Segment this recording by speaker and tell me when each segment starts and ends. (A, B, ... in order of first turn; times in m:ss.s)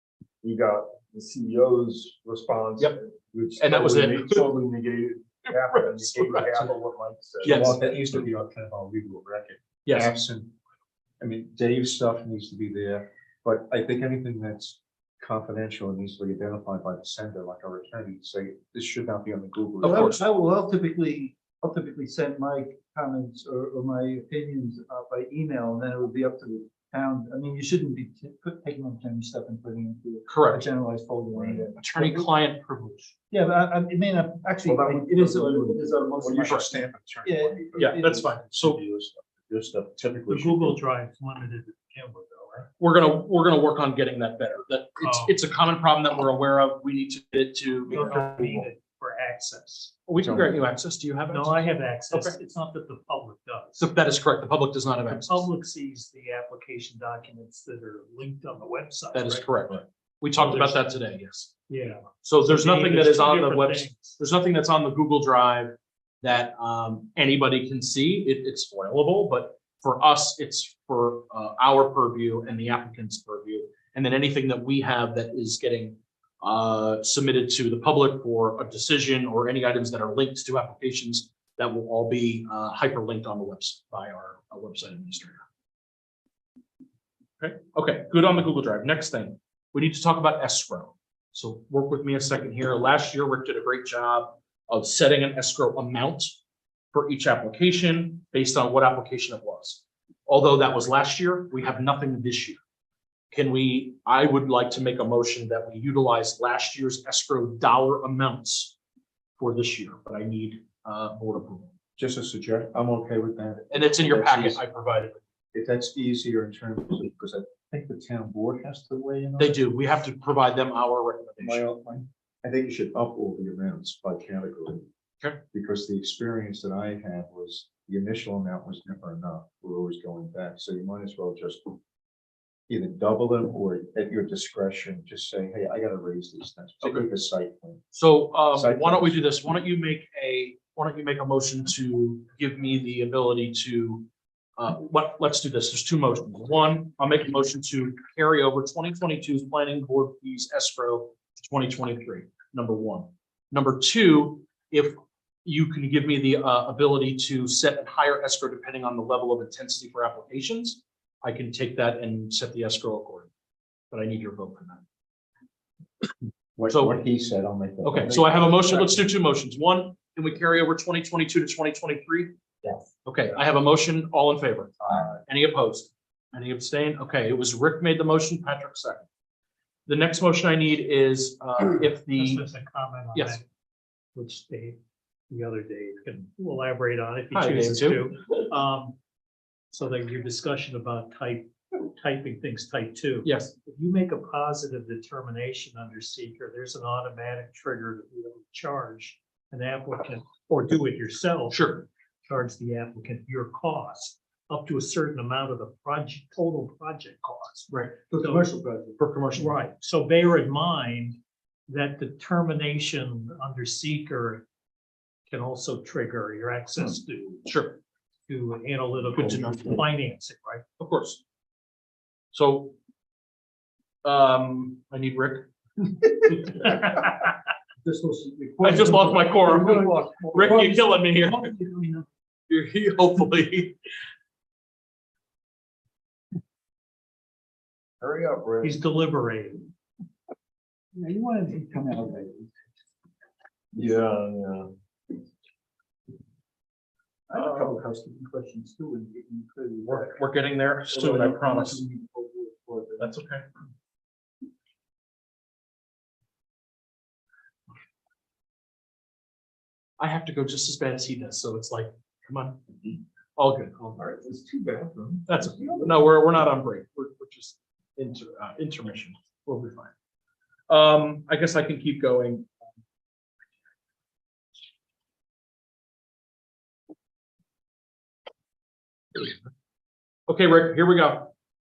0:00.4-0:08.2 A
0:03.6-0:04.5 B
0:05.5-0:06.7 B
0:07.4-0:10.5 C
0:07.4-0:07.8 B
0:09.8-0:10.1 B
0:11.2-0:20.2 C
0:19.8-0:20.2 B
0:19.8-0:32.2 D
0:30.3-0:30.7 B
0:31.4-0:31.7 C
0:31.8-0:32.8 B
0:33.3-0:36.7 D
0:34.6-0:40.8 C
0:36.4-0:36.7 B
0:37.2-0:38.2 D
0:37.8-0:38.8 B
0:40.3-0:42.7 E
0:42.8-0:48.6 B
0:45.0-0:45.4 E
0:47.9-0:50.0 E
0:48.3-0:48.6 C
0:50.1-0:52.4 B
0:50.2-0:50.6 C
0:51.3-0:53.8 E
0:53.8-0:55.5 B
0:55.1-0:59.8 E
0:59.1-1:01.5 B
1:00.4-1:00.8 E
1:01.7-1:04.2 E
1:02.2-1:25.4 B
1:27.4-1:36.4 B
1:36.9-1:42.6 B
1:43.3-1:48.8 B
1:49.4-1:51.7 B
1:52.0-1:54.6 C
1:53.7-1:55.2 B
1:55.5-1:59.6 C
1:59.4-2:01.6 B
2:01.4-2:04.9 C
2:05.5-2:11.8 C
2:12.7-2:17.8 C
2:16.8-2:17.1 B
2:17.9-2:43.3 B
2:18.5-2:19.2 C
2:43.9-2:44.8 B
2:46.6-2:49.0 C
2:46.7-2:47.0 B
2:47.8-2:52.4 B
2:53.0-2:59.1 B
2:54.8-2:55.2 C
2:59.9-3:02.4 B
3:02.0-3:03.4 E
3:03.1-3:03.4 B
3:04.2-3:04.8 E
3:05.3-3:09.0 E
3:07.3-3:08.1 B
3:09.7-3:28.4 E
3:13.2-3:13.5 B
3:21.5-3:21.9 B
3:27.7-3:28.1 B
3:28.1-3:29.0 D
3:29.0-3:29.6 B
3:29.4-3:34.4 E
3:35.3-3:37.5 E
3:37.4-3:37.8 B
3:38.3-3:40.6 E
3:39.1-3:39.8 B
3:40.8-3:41.2 B
3:42.3-3:42.8 B
3:44.0-3:45.5 B
3:46.3-3:46.7 B
3:47.8-3:52.0 D
3:48.6-3:51.5 B
3:52.5-3:53.8 B
3:58.0-3:58.8 A
3:58.6-3:59.7 E
4:00.9-4:02.5 D
4:03.8-4:04.3 D
4:03.8-4:04.7 A
4:07.3-4:10.2 D
4:09.9-4:11.8 B
4:10.9-4:13.2 D
4:13.0-4:13.4 B
4:20.0-4:22.6 B
4:23.4-4:24.0 B
4:24.0-4:26.0 D
4:25.3-4:29.9 B
4:30.7-4:32.5 B
4:40.3-4:41.3 B